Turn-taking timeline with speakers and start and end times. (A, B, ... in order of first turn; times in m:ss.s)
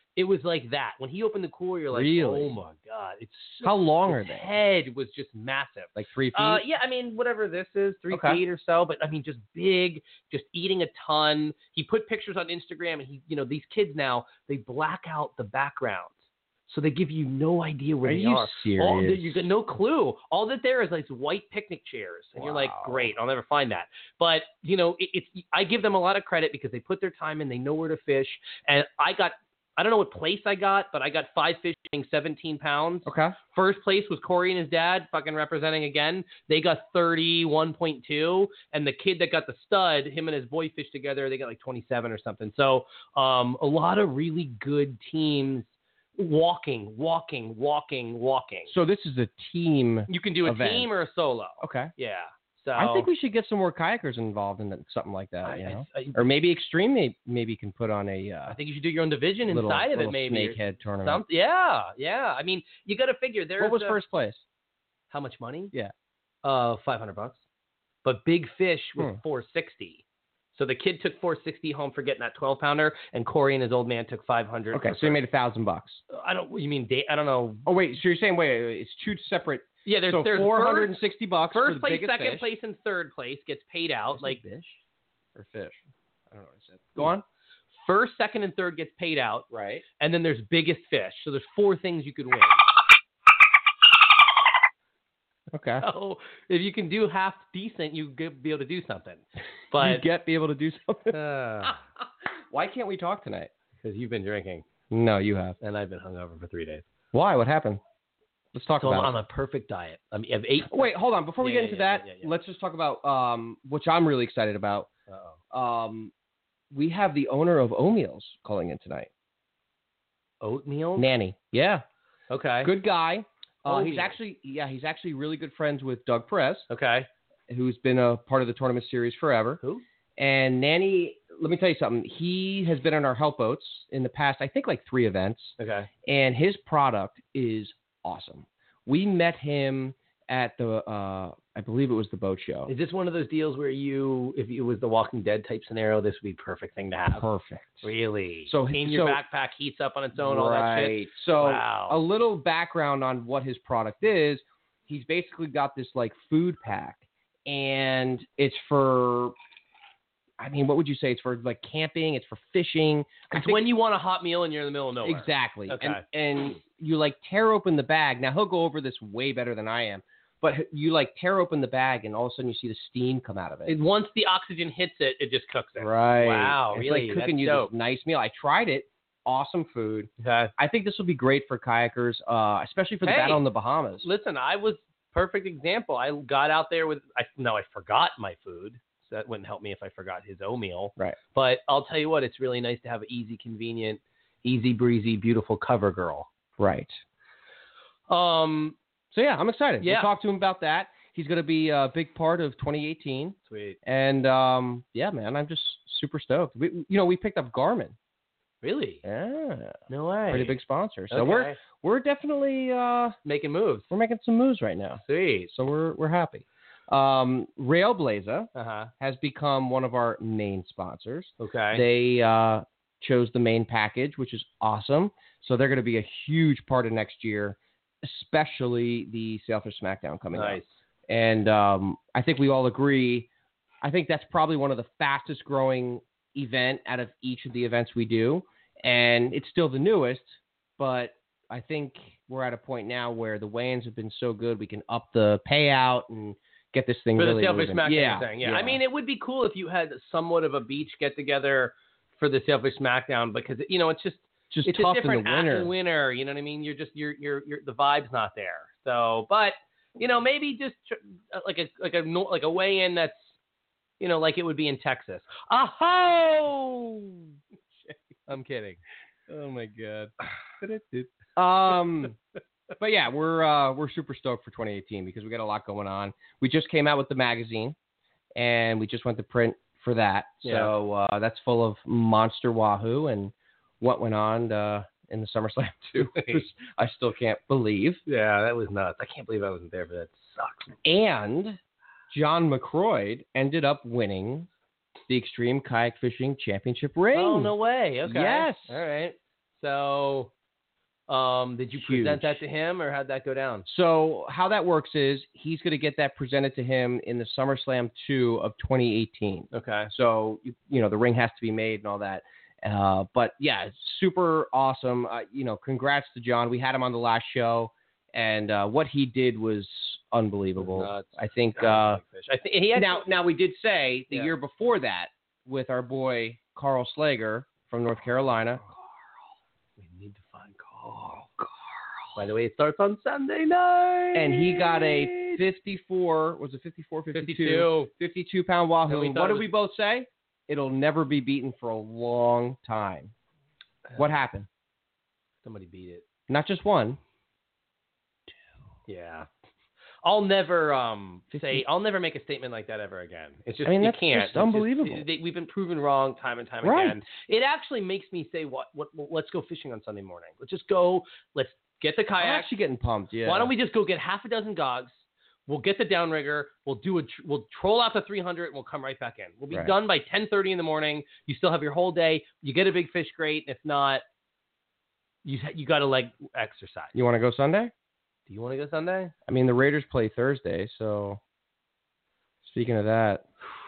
0:00.2-0:48.7 A
0:01.9-0:02.5 B
0:03.6-0:04.5 B
0:06.0-0:06.6 B
0:08.1-0:08.4 B
0:18.0-0:19.5 B
0:22.4-0:23.1 B
0:33.1-0:33.4 B
0:48.7-0:50.9 B
0:50.1-0:53.1 A
0:51.6-0:51.9 B
0:52.8-0:58.6 B
0:55.4-0:56.3 A
0:58.5-1:04.0 A
0:59.5-1:01.2 B
1:03.6-1:04.4 B
1:05.1-1:05.7 A
1:06.4-1:07.4 A
1:08.0-1:10.0 A
1:10.5-1:15.2 A
1:14.7-1:16.0 B
1:16.1-1:17.7 A
1:17.7-1:22.5 B
1:19.8-1:24.4 A
1:24.2-1:24.8 B
1:25.4-1:27.2 B
1:27.8-1:29.5 A
1:29.5-1:29.8 B
1:30.0-1:32.6 A
1:35.5-1:35.8 B
1:35.8-1:40.1 A
1:39.8-1:41.8 B
1:41.1-1:41.8 A
1:42.5-1:43.5 B
1:43.8-1:44.6 A
1:44.9-1:45.6 B
1:45.6-1:46.8 A
1:47.1-1:47.8 B
1:48.5-1:49.2 B
1:48.8-1:52.3 A
1:50.6-1:54.9 B
1:55.1-1:55.4 A
1:55.5-1:56.1 B
1:56.7-1:59.1 B
2:00.4-2:01.1 A
2:01.0-2:01.8 B
2:02.3-2:02.7 A
2:02.6-2:06.7 B
2:03.7-2:04.2 A
2:06.7-2:07.1 A
2:07.5-2:09.6 B
2:10.2-2:22.7 B
2:15.6-2:15.9 A
2:22.7-2:27.2 A
2:27.1-2:27.9 B
2:27.8-2:32.0 A
2:28.5-2:29.2 B
2:30.2-2:39.4 B
2:40.4-2:43.7 B
2:43.3-2:46.0 A
2:45.0-2:53.8 B
2:53.7-2:57.7 A
2:55.8-3:04.1 B
3:00.2-3:00.5 A
3:03.0-3:03.4 A
3:04.0-3:16.3 A
3:16.6-3:17.0 B
3:18.1-3:18.8 A
3:19.1-3:28.0 B
3:19.8-3:20.1 A
3:23.5-3:23.8 A
3:28.6-3:29.0 A
3:29.0-3:29.8 B
3:29.9-3:30.6 A
3:30.3-3:33.2 B
3:31.1-3:31.6 A
3:33.2-3:33.9 A
3:33.9-3:53.3 B
3:35.0-3:35.5 A
3:38.6-3:38.9 A
3:41.4-3:41.8 A
3:50.3-3:50.8 A
3:53.8-4:08.8 B
4:07.2-4:23.4 A
4:14.5-4:15.7 B
4:24.0-4:27.3 A
4:27.9-4:31.1 A
4:31.4-4:32.2 B
4:32.8-4:37.8 B
4:38.4-4:48.0 B
4:40.4-4:40.7 A
4:46.1-4:46.4 A
4:48.1-4:50.8 A
4:50.8-4:51.6 B
4:52.1-4:54.5 B
4:55.1-4:57.5 B
4:57.1-5:00.3 A
4:58.1-4:58.8 B
5:01.1-5:03.7 A
5:01.8-5:02.4 B
5:03.7-5:22.0 B
5:09.5-5:09.9 A
5:20.6-5:23.0 A
5:22.8-5:28.6 B
5:29.8-5:31.5 A
5:32.2-5:35.4 A
5:34.1-5:43.1 B
5:37.1-5:37.9 A
5:38.9-5:39.5 A
5:44.0-5:44.5 B
5:45.4-5:46.0 A
5:46.3-5:47.0 B
5:48.9-5:49.3 A
5:50.0-6:02.5 A
5:51.3-5:51.6 B
5:53.6-5:55.0 B
5:56.6-5:57.0 B
6:02.2-6:03.5 B
6:03.2-6:04.9 A
6:05.5-6:14.0 A
6:15.2-6:17.0 A
6:16.9-6:17.7 B
6:18.3-6:19.1 A
6:19.3-6:21.2 B
6:22.4-6:23.2 B